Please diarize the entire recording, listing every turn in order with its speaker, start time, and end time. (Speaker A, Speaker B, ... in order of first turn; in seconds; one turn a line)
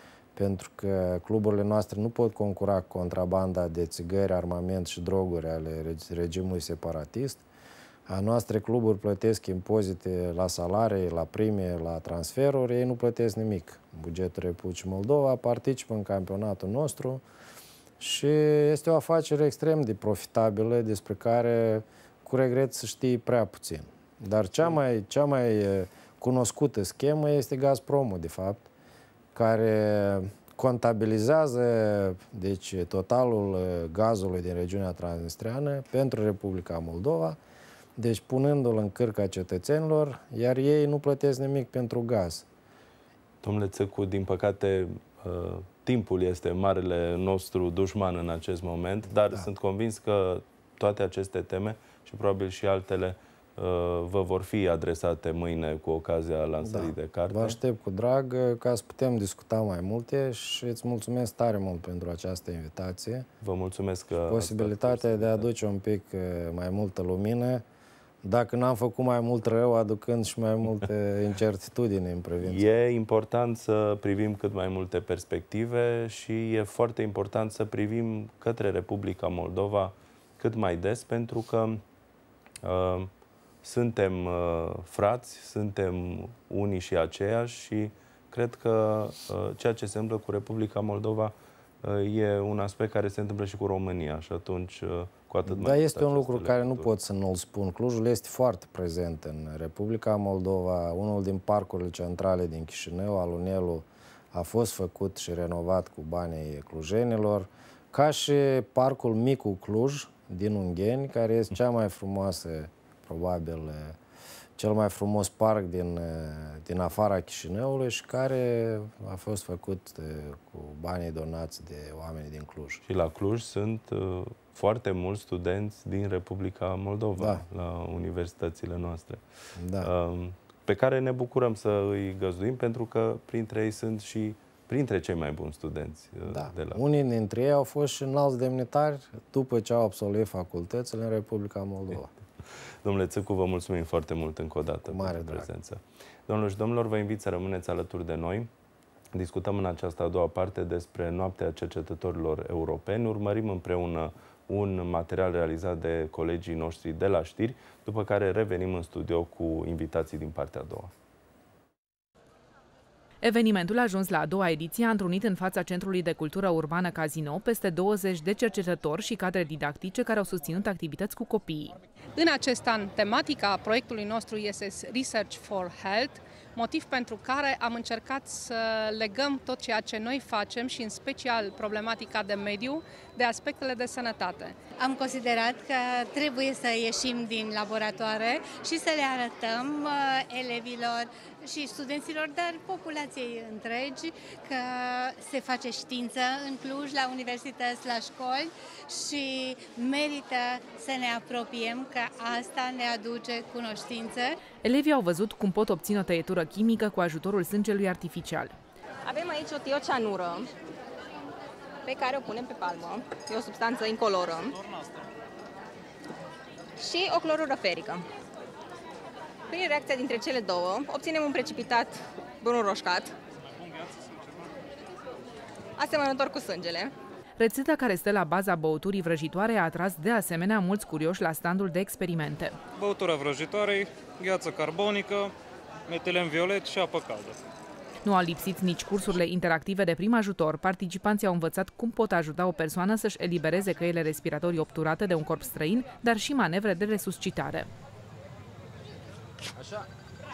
Speaker A: 0.3-7.4
Speaker A: 8.1-17.2
Speaker A: 18.0-28.7
Speaker A: 29.3-37.4
Speaker A: 38.0-42.5
Speaker B: 43.4-57.6
Speaker A: 56.6-63.2
Speaker B: 63.4-65.5
Speaker A: 64.2-67.6
Speaker A: 68.2-72.6
Speaker B: 72.4-81.8
Speaker B: 82.6-83.1
Speaker B: 83.6-96.9
Speaker A: 95.5-114.0
Speaker A: 114.6-122.8
Speaker B: 122.9-129.2
Speaker A: 127.2-127.4
Speaker A: 129.6-129.9
Speaker B: 129.8-136.8
Speaker A: 136.3-142.1
Speaker B: 142.8-148.5
Speaker A: 144.9-145.5
Speaker B: 149.1-160.9
Speaker C: 163.2-171.8
Speaker D: 172.2-184.6
Speaker E: 184.8-204.4
Speaker C: 204.6-208.5
Speaker F: 209.1-210.5
Speaker F: 211.8-214.5
Speaker F: 216.8-218.0
Speaker F: 219.5-223.1
Speaker F: 225.8-226.9
Speaker C: 227.4-232.6
Speaker G: 232.8-235.3
Speaker G: 235.9-237.3
Speaker C: 238.0-247.7